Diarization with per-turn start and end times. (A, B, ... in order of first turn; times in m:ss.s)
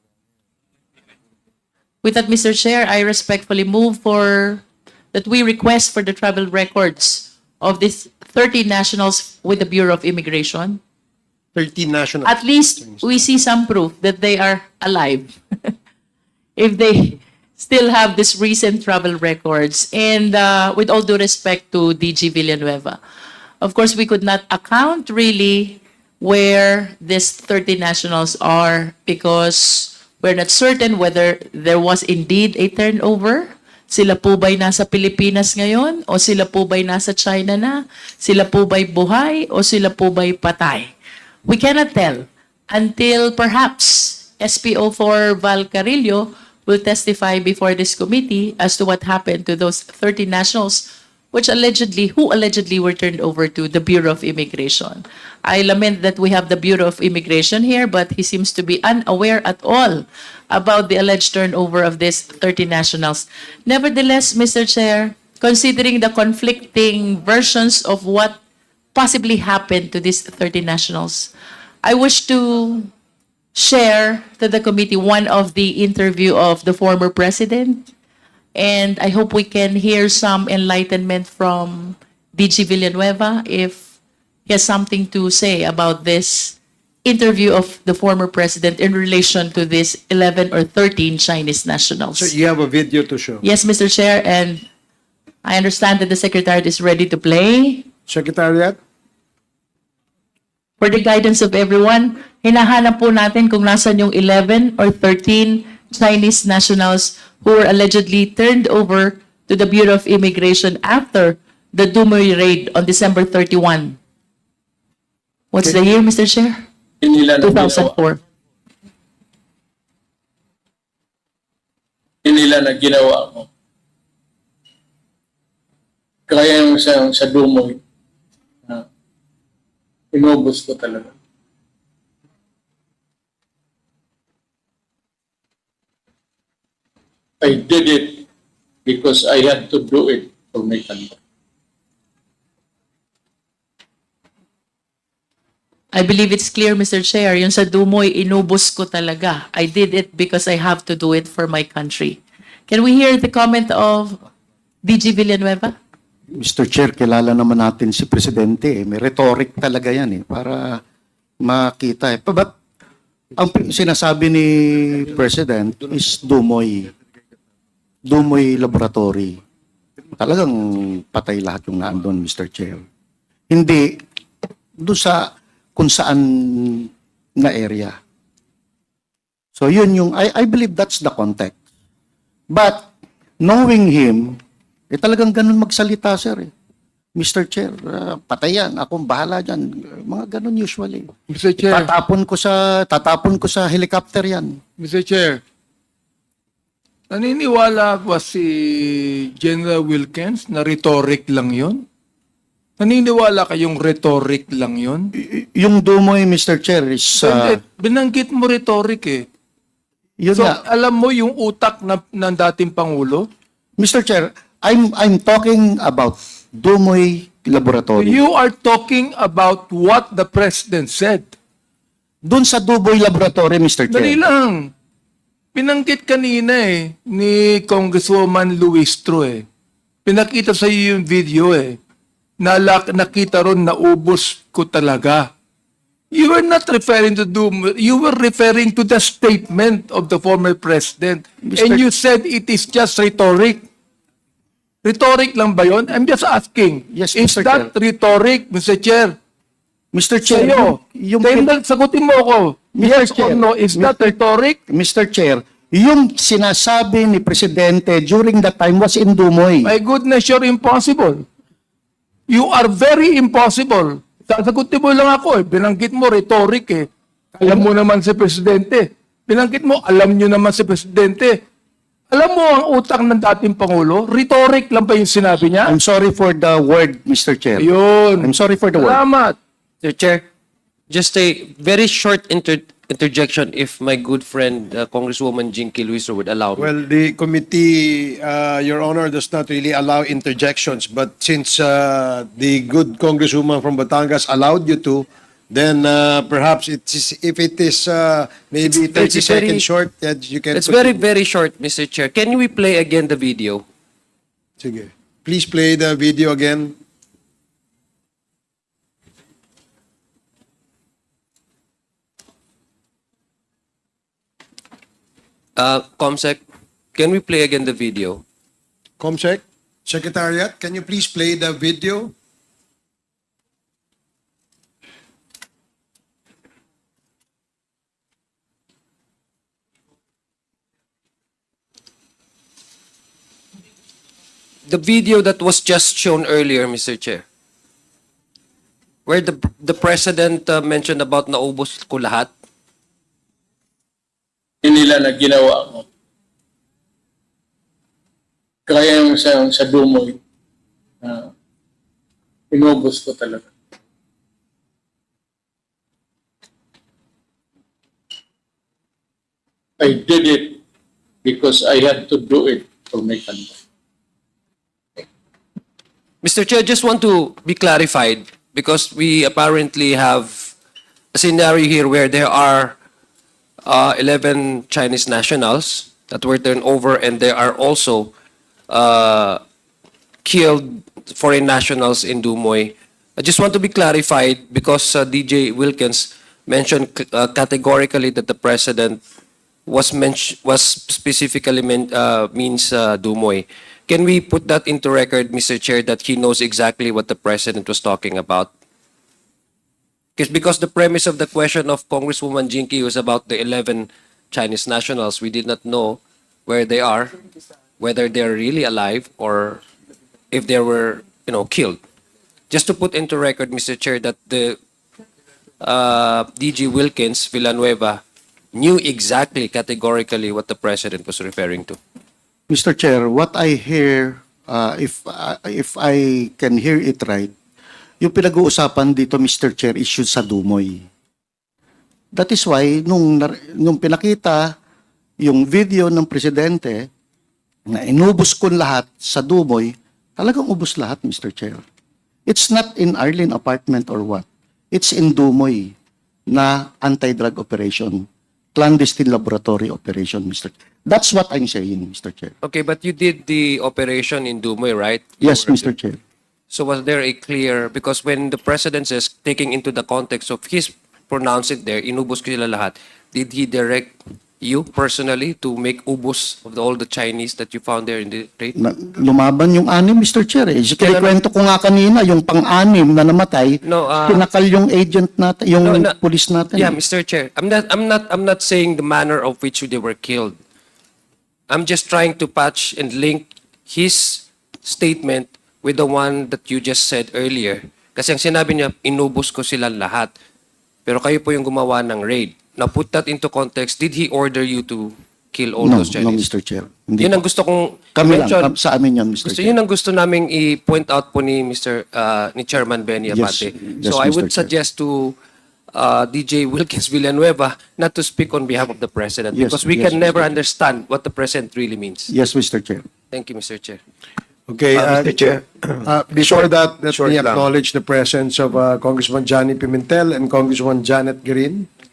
0:02.0-0:10.8 A
0:11.5-0:13.2 B
0:12.2-0:15.7 A
0:16.6-0:23.0 A
0:23.6-0:40.9 A
0:41.4-1:08.4 A
1:08.9-1:11.3 A
1:11.8-1:12.9 A
1:13.5-1:17.9 A
1:18.5-1:23.9 A
1:24.5-1:32.3 A
1:32.1-1:33.4 B
1:33.4-1:34.6 A
1:35.4-1:37.9 A
1:38.1-1:38.8 B
1:40.8-1:54.0 A
1:55.5-1:56.6 A
1:57.0-1:58.0 C
1:57.4-1:58.2 A
2:02.2-2:03.5 C
2:06.3-2:07.8 C
2:10.1-2:11.1 C
2:17.4-2:18.3 C
2:18.8-2:21.2 C
2:25.9-2:34.2 A
2:34.8-2:35.7 A
2:36.4-2:40.8 D
2:41.4-2:42.5 D
2:43.4-2:46.9 D
2:48.0-2:49.4 D
2:50.2-2:52.8 D
2:53.5-2:54.0 D
2:54.8-2:58.0 D
2:59.6-3:01.5 D
3:02.5-3:02.9 D
3:03.4-3:04.4 D
3:04.9-3:06.5 D
3:07.2-3:11.1 D
3:11.3-3:11.9 E
3:11.7-3:14.6 D
3:14.8-3:15.4 E
3:17.1-3:21.8 E
3:22.8-3:25.1 E
3:25.2-3:27.6 D
3:27.2-3:29.2 E
3:30.2-3:30.6 D
3:30.3-3:33.3 E
3:33.8-3:38.2 D
3:38.0-3:41.3 E
3:42.2-3:44.2 D
3:43.9-3:44.7 E
3:45.5-3:49.4 E
3:50.0-3:51.8 E
3:52.4-3:55.3 E
3:56.1-4:03.6 E
4:01.4-4:01.8 D
4:04.8-4:09.1 E
4:06.9-4:07.7 D
4:09.9-4:11.5 D
4:10.3-4:14.6 E
4:12.7-4:14.2 D
4:14.7-4:19.7 D
4:19.6-4:21.2 E
4:22.3-4:31.4 E
4:32.1-4:35.8 E
4:35.6-4:39.0 D
4:37.6-4:39.4 E
4:39.8-4:40.2 F
4:40.9-4:46.7 F
4:46.6-5:01.0 B
4:58.6-4:59.7 F
5:00.5-5:03.6 F
5:04.6-5:06.7 B
5:15.6-5:16.4 F
5:16.9-5:18.2 F
5:19.0-5:22.1 B
5:34.7-5:37.2 F
5:39.0-5:42.3 F
5:44.6-5:45.9 C
5:48.7-5:50.2 C
5:51.0-5:51.3 C
5:52.5-5:53.5 C
5:59.8-6:00.6 C
6:01.2-6:03.6 C
6:06.2-6:10.5 F
6:11.1-6:12.8 F
6:13.6-6:18.1 F
6:18.7-6:19.4 F
6:20.2-6:29.0 F
6:29.6-6:38.5 F
6:40.2-6:47.2 F
6:47.8-6:49.6 F
6:50.3-6:51.8 F
6:52.5-6:54.6 F
6:55.6-6:58.0 F
6:58.5-7:01.8 F
7:02.5-7:07.3 D
7:08.0-7:10.8 D
7:12.1-7:14.5 D
7:15.2-7:16.9 D
7:17.7-7:21.6 D
7:22.3-7:25.7 D
7:26.3-7:32.3 D
7:32.4-7:35.7 F
7:35.2-7:36.0 D
7:36.5-7:48.5 F
7:48.6-7:56.8 D
7:50.8-7:51.2 F
7:53.6-7:54.2 F
7:55.6-7:55.9 F
7:56.5-8:00.4 F
8:01.5-8:10.1 F
8:10.8-8:16.2 F
8:15.6-8:17.2 D
8:17.0-8:18.5 F
8:18.0-8:19.6 D
8:19.2-8:25.2 F
8:23.1-8:24.5 D
8:25.7-8:32.1 F
8:29.3-8:30.2 D
8:32.1-8:32.8 D
8:33.1-8:33.8 F
8:34.5-8:35.1 B
8:34.7-8:37.5 G
8:35.8-8:41.7 B